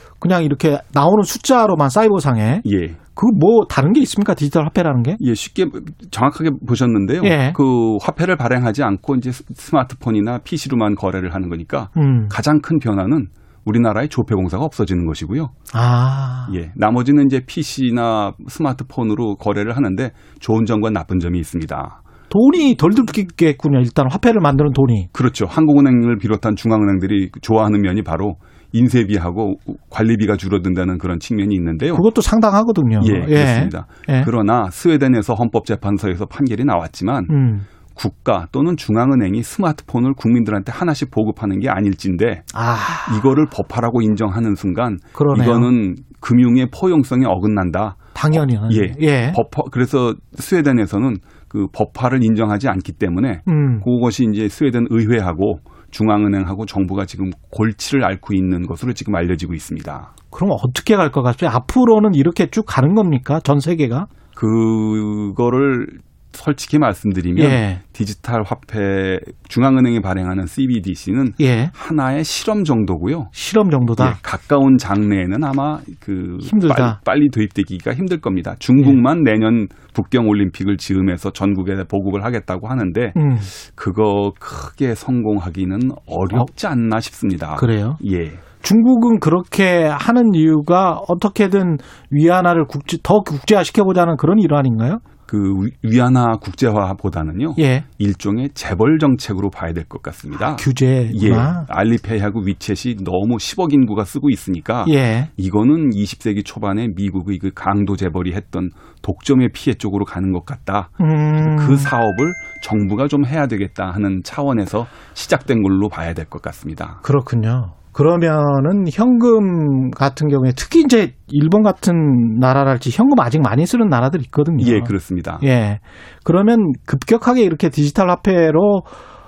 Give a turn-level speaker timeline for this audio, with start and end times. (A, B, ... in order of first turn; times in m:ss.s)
0:00.2-0:05.2 A
0:02.6-0:03.0 B
0:05.2-0:15.5 B
0:07.2-0:07.6 A
0:12.0-0:12.4 A
0:15.7-0:16.5 A
0:16.5-0:22.0 B
0:22.3-0:25.1 A
0:25.1-0:32.0 B
0:31.9-0:34.3 A
0:33.0-0:37.3 B
0:37.3-0:37.7 A
0:37.9-0:42.5 B
0:42.5-0:43.3 A
0:43.1-1:00.1 B
0:45.1-0:45.7 A
0:48.1-0:49.4 A
0:53.5-0:53.9 A
1:00.3-1:04.1 A
1:04.4-1:13.3 B
1:07.4-1:07.8 A
1:11.4-1:11.7 A
1:13.3-1:14.2 A
1:14.0-1:28.4 B
1:16.4-1:17.0 A
1:23.2-1:23.5 A
1:27.6-1:28.0 A
1:28.6-1:35.0 A
1:35.3-1:57.0 B
1:37.6-1:37.9 A
1:40.4-1:41.6 A
1:44.8-1:45.3 A
1:51.0-1:51.9 A
1:57.0-2:08.9 A
2:04.6-2:05.4 B